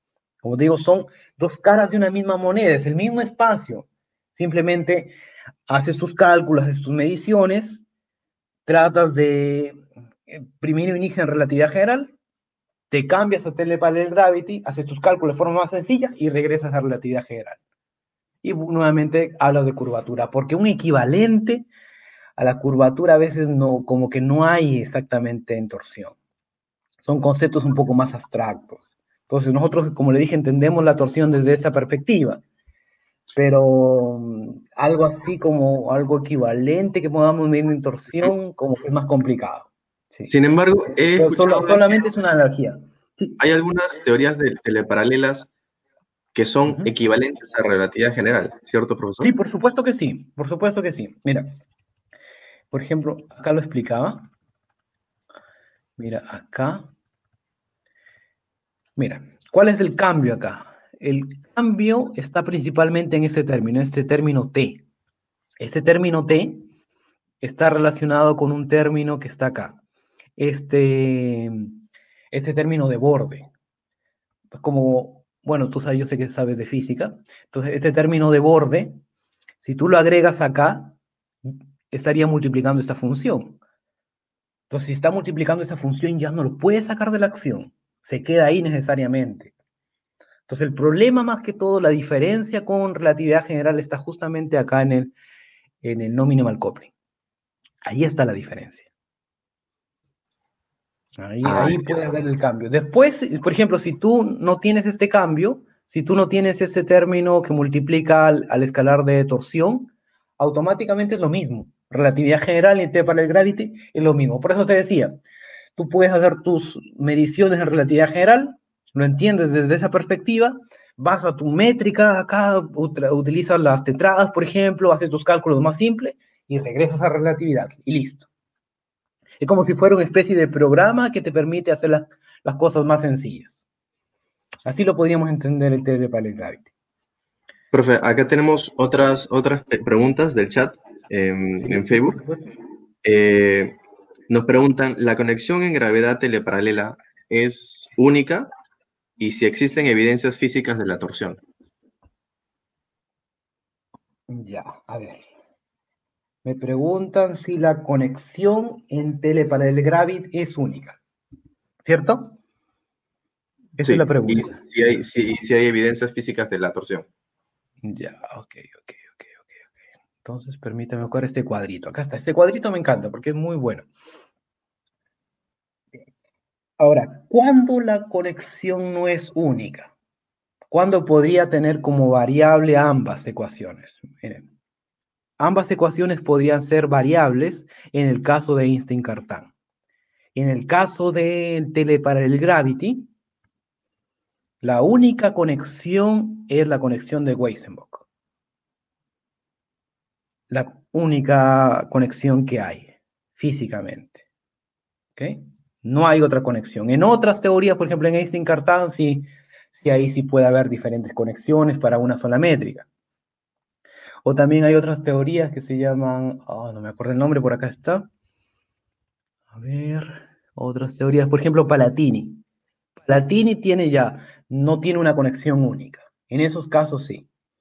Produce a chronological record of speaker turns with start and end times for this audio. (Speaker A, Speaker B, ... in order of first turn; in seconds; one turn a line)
Speaker A: 0.4-5.1
Speaker A: 5.7-7.8
Speaker A: 8.7-12.1
Speaker A: 12.9-17.6
Speaker A: 18.4-21.7
Speaker A: 22.4-26.1
Speaker A: 27.0-32.4
Speaker A: 33.3-40.3
Speaker B: 40.2-41.8
Speaker A: 41.0-43.4
Speaker B: 43.4-45.5
Speaker B: 46.3-49.3
Speaker A: 49.2-51.5
Speaker A: 52.7-54.3
Speaker A: 56.0-56.9
Speaker A: 59.0-64.8
Speaker A: 65.6-66.7
Speaker A: 67.4-69.8
Speaker A: 70.4-71.7
Speaker A: 72.3-73.5
Speaker A: 74.5-79.0
Speaker A: 79.6-83.6
Speaker A: 84.7-89.5
Speaker A: 90.5-95.1
Speaker A: 95.8-96.9
Speaker A: 97.8-98.9
Speaker A: 101.2-115.2
Speaker B: 101.4-101.9
Speaker A: 115.8-128.3
Speaker A: 129.4-133.6
Speaker A: 134.7-136.7
Speaker B: 137.7-142.2
Speaker A: 141.6-142.4
Speaker B: 143.0-143.8
Speaker B: 144.3-148.5
Speaker B: 149.2-151.4
Speaker A: 154.3-155.2
Speaker A: 156.4-161.0
Speaker A: 161.8-162.4
Speaker A: 163.8-164.6
Speaker B: 163.8-167.1
Speaker A: 167.8-169.6
Speaker A: 170.2-173.9
Speaker A: 176.8-179.9
Speaker A: 180.7-184.5
Speaker A: 185.4-189.5
Speaker A: 190.3-193.1
Speaker A: 194.6-198.1
Speaker A: 200.5-204.2
Speaker A: 205.2-212.9
Speaker A: 214.2-218.1
Speaker A: 219.5-222.4
Speaker A: 223.0-227.3